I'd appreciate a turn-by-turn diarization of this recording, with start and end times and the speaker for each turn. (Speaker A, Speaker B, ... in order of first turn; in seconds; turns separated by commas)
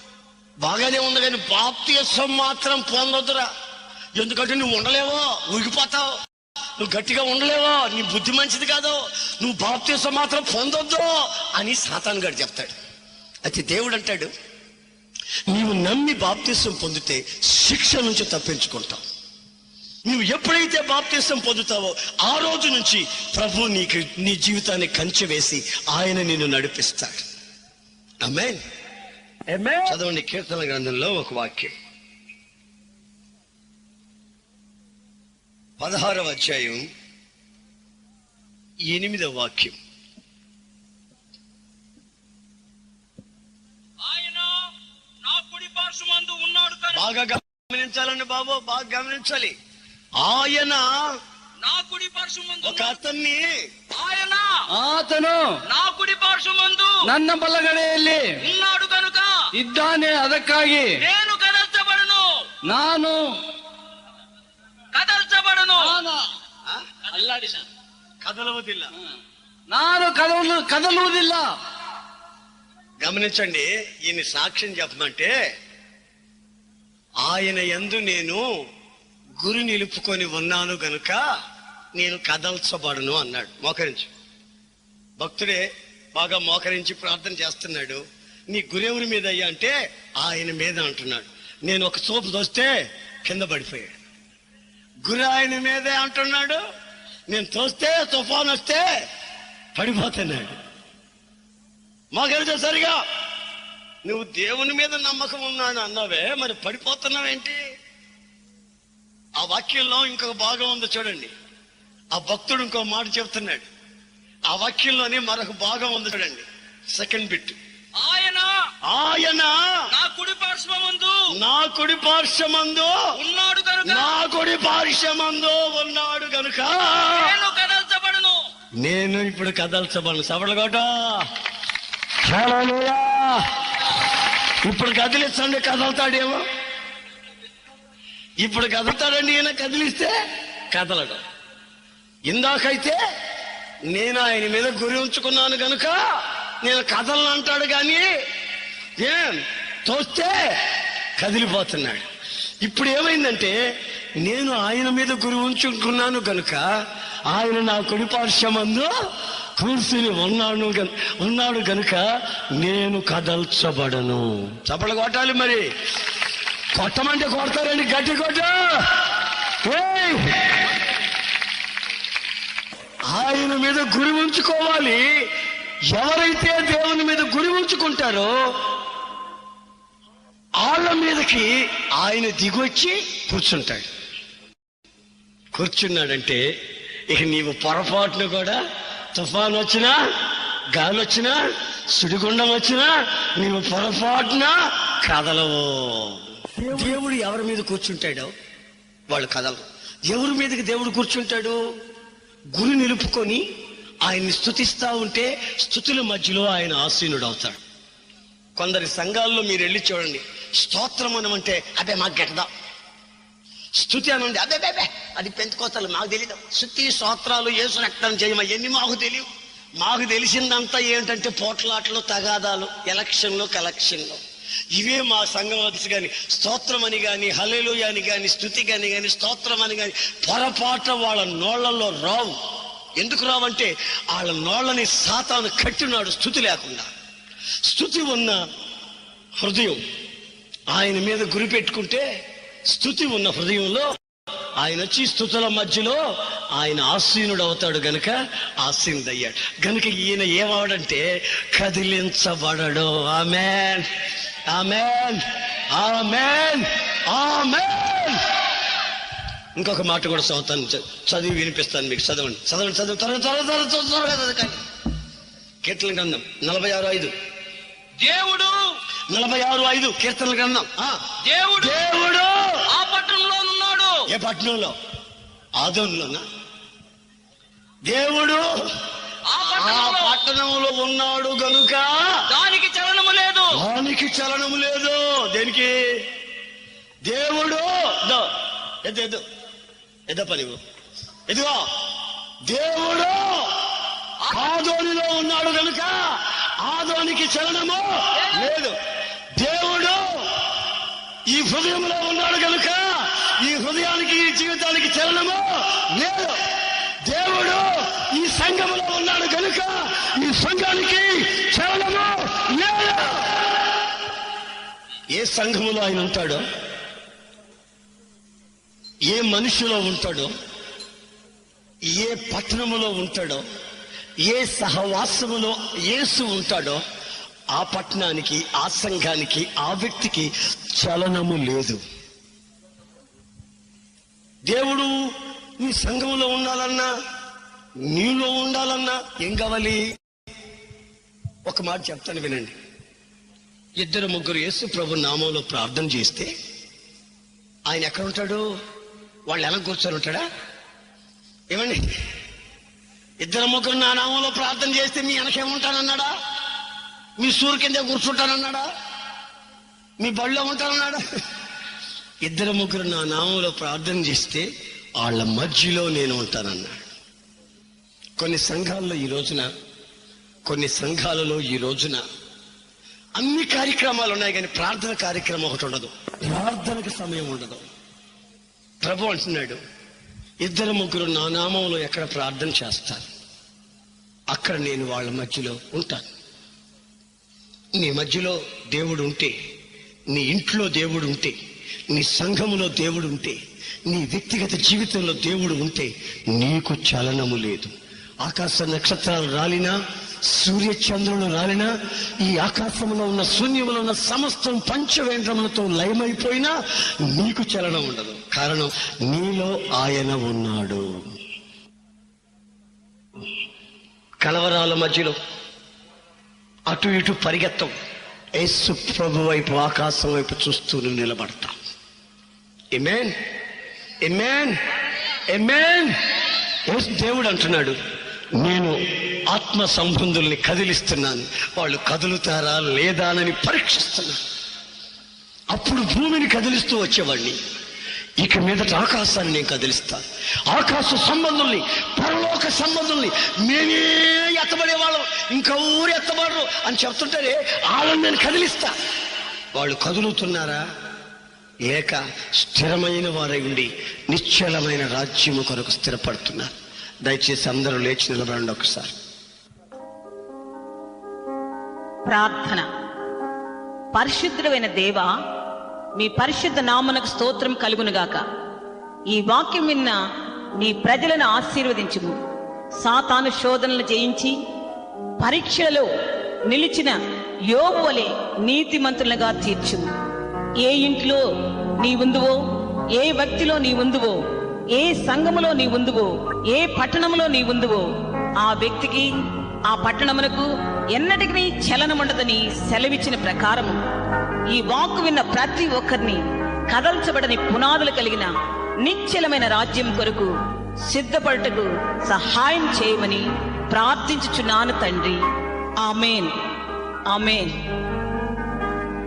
Speaker A: 0.6-3.5, Speaker A: 4.2-6.1, Speaker A: 6.8-12.7, Speaker A: 13.4-14.3, Speaker A: 15.5-19.0, Speaker A: 20.1-27.2, Speaker A: 28.2-28.6, Speaker A: 29.8-31.7, Speaker A: 35.8-36.8, Speaker A: 38.9-39.8, Speaker B: 44.0-44.6, Speaker B: 45.2-47.0, Speaker A: 46.9-49.5, Speaker A: 50.2-51.0, Speaker B: 51.6-53.0, Speaker A: 52.6-53.5, Speaker B: 53.9-54.6, Speaker C: 54.7-55.6, Speaker B: 55.6-57.0, Speaker C: 57.0-58.4, Speaker B: 58.4-59.4, Speaker C: 59.5-61.0, Speaker B: 61.0-62.3, Speaker C: 62.6-63.3, Speaker B: 64.9-65.9, Speaker C: 65.8-66.2, Speaker C: 67.1-67.6, Speaker A: 68.2-68.9, Speaker C: 69.7-71.5, Speaker A: 73.0-75.3, Speaker A: 77.2-78.4, Speaker A: 79.4-81.2, Speaker A: 82.0-84.1, Speaker A: 85.2-92.7, Speaker A: 93.2-94.0, Speaker A: 95.0-96.6, Speaker A: 97.3-98.8, Speaker A: 99.7-100.5, Speaker A: 102.1-103.0, Speaker A: 104.0-107.6, Speaker A: 109.4-111.3, Speaker A: 112.1-113.7, Speaker A: 114.5-117.6, Speaker B: 118.0-118.5, Speaker A: 118.8-119.6, Speaker B: 119.9-121.2, Speaker A: 121.3-122.9, Speaker B: 123.2-124.1, Speaker A: 123.8-127.3, Speaker B: 127.2-128.4, Speaker A: 128.8-131.2, Speaker A: 132.2-133.4, Speaker A: 134.6-136.4, Speaker A: 138.4-140.1, Speaker A: 140.7-141.2, Speaker A: 142.3-143.0, Speaker A: 143.9-146.0, Speaker A: 146.6-148.1, Speaker A: 149.0-150.5, Speaker A: 151.2-152.1, Speaker A: 152.6-153.5, Speaker A: 154.2-156.6, Speaker A: 157.3-158.9, Speaker A: 159.6-162.1, Speaker A: 162.6-165.6, Speaker A: 166.7-168.6, Speaker A: 169.6-170.3, Speaker A: 173.1-175.0, Speaker A: 175.9-178.3, Speaker A: 180.6-183.9, Speaker A: 185.5-186.4, Speaker A: 187.1-188.6, Speaker A: 189.1-189.9, Speaker A: 190.7-191.4, Speaker A: 191.9-198.3, Speaker A: 199.1-201.6, Speaker A: 202.5-203.4, Speaker A: 204.0-207.6, Speaker A: 208.6-212.5, Speaker A: 213.8-224.2, Speaker A: 224.7-232.4, Speaker A: 233.0-236.9, Speaker A: 237.6-238.4, Speaker A: 239.4-239.8, Speaker A: 240.7-242.0, Speaker A: 242.7-243.9, Speaker A: 244.6-246.0, Speaker A: 246.5-253.9, Speaker A: 254.5-258.2, Speaker A: 259.6-264.6, Speaker A: 265.6-267.1, Speaker B: 268.0-268.7, Speaker A: 269.1-271.0, Speaker B: 271.3-271.8, Speaker A: 271.6-272.6, Speaker B: 272.7-274.0, Speaker A: 274.1-274.7, Speaker A: 275.6-276.2, Speaker A: 277.9-278.5, Speaker B: 279.3-280.1, Speaker A: 279.6-282.2, Speaker B: 282.3-283.5, Speaker A: 283.5-285.7, Speaker A: 287.1-288.3, Speaker A: 288.8-289.2, Speaker A: 290.1-290.6, Speaker A: 291.3-291.6, Speaker A: 292.4-293.5, Speaker A: 294.2-298.8, Speaker A: 299.4-300.3, Speaker A: 301.3-306.4, Speaker A: 307.1-313.3, Speaker A: 315.1-316.4, Speaker A: 319.1-320.3, Speaker A: 321.9-323.4, Speaker A: 324.2-326.8, Speaker A: 327.5-331.8, Speaker A: 334.5-334.9, Speaker A: 335.6-336.9, Speaker A: 337.9-339.8, Speaker A: 341.4-342.6, Speaker A: 343.8-346.3, Speaker A: 347.7-348.4, Speaker A: 349.3-350.2, Speaker A: 351.5-351.8, Speaker A: 353.2-356.1, Speaker A: 357.2-358.7, Speaker A: 360.0-361.0, Speaker A: 362.2-364.5, Speaker A: 365.0-366.9, Speaker A: 368.2-369.5, Speaker A: 370.4-372.0, Speaker A: 373.1-377.6, Speaker A: 378.8-379.6, Speaker A: 380.4-383.1, Speaker A: 384.3-386.1, Speaker A: 387.8-389.3, Speaker A: 390.1-391.4, Speaker A: 391.9-399.8, Speaker A: 400.3-411.0, Speaker A: 414.2-415.1, Speaker A: 416.7-417.7, Speaker A: 418.4-421.6, Speaker A: 422.7-423.1, Speaker A: 424.0-424.6, Speaker A: 425.3-425.9, Speaker A: 426.7-427.8, Speaker A: 428.4-428.7, Speaker A: 429.3-434.2, Speaker A: 435.5-437.4, Speaker A: 438.2-448.7, Speaker A: 449.5-450.6, Speaker A: 451.6-456.5, Speaker A: 457.0-458.9, Speaker D: 462.1-462.7, Speaker D: 463.9-465.1, Speaker D: 465.9-468.2, Speaker D: 469.1-470.0, Speaker D: 470.6-472.2, Speaker D: 472.8-474.4, Speaker D: 475.2-475.9, Speaker D: 476.5-477.0, Speaker D: 477.5-479.9, Speaker D: 480.6-481.2, Speaker D: 481.8-482.4, Speaker D: 482.9-484.2, Speaker D: 484.7-487.9, Speaker D: 488.4-489.1, Speaker D: 489.7-493.8, Speaker D: 494.5-498.3, Speaker D: 498.8-500.3, Speaker D: 500.9-505.2, Speaker D: 505.8-506.3, Speaker D: 507.1-507.5